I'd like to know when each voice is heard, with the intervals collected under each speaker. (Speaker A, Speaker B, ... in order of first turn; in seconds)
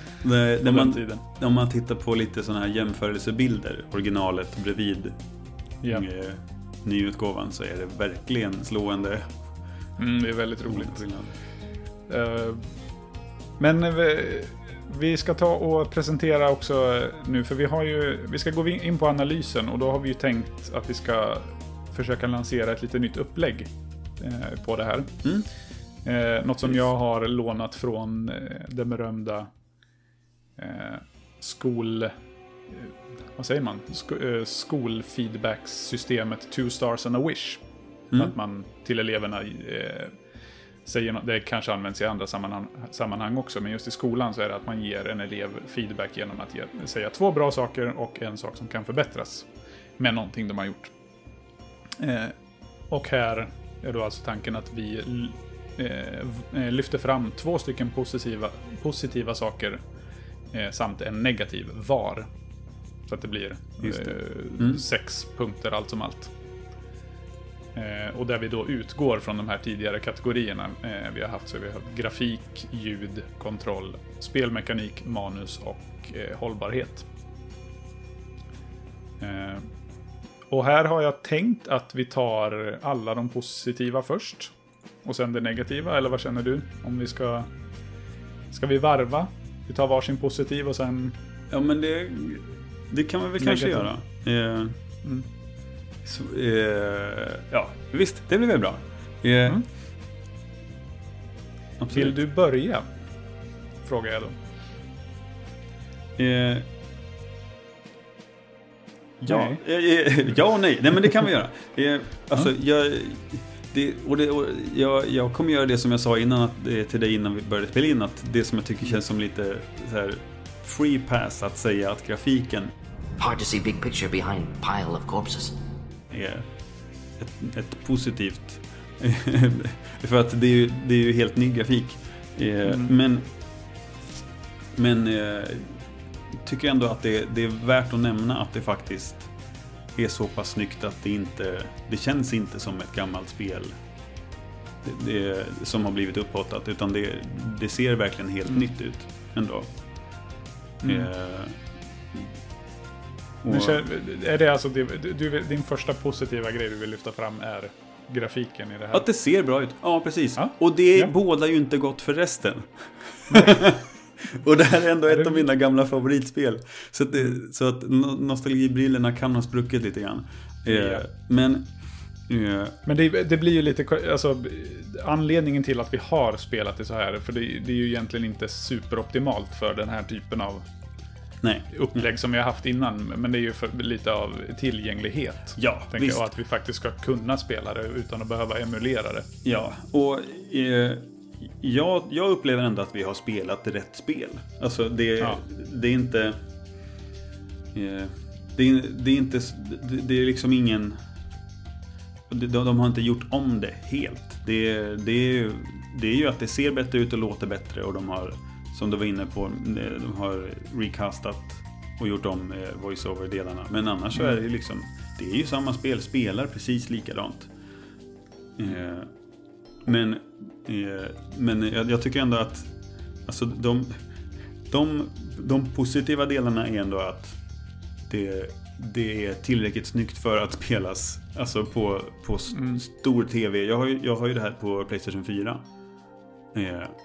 Speaker A: 0.2-5.2, 5.9-9.4, 10.7-11.3, 63.8-64.8, 91.5-94.8, 96.0-99.6, 101.8-102.2, 106.2-106.7, 109.2-122.7, 126.1-126.5, 127.2-133.2, 134.7-135.8, 136.4-139.3, 139.9-143.8, 144.8-149.7, 150.8-151.6, 153.4-153.8, 158.9-171.7, 172.3-172.8, 181.4-182.1, 185.6-186.2, 189.4-196.4, 197.7-201.0, 202.3-217.5, 218.6-219.1, 219.8-224.0, 224.7-227.4, 228.1-235.7, 236.5-237.0
Speaker B: 0.6-1.2, 5.8-6.1, 10.0-11.1, 12.1-12.7, 13.6-25.2, 26.0-29.5, 30.6-32.1, 32.7-37.6, 38.1-40.1, 40.8-49.5, 50.0-50.9, 52.0-52.4, 52.9-59.8, 60.5-62.3, 63.1-66.3, 67.7-77.1, 79.2-79.7, 80.5-84.5, 85.0-87.5, 88.5-91.2, 93.4-93.9, 101.9-102.9, 103.8-104.3, 109.2-109.6, 150.8-151.1, 153.5-159.1, 160.4-161.1, 163.3-163.6, 165.1-165.4, 170.7-171.0, 172.8-180.6, 181.7-189.3, 232.5-232.8
Speaker C: 123.2-125.5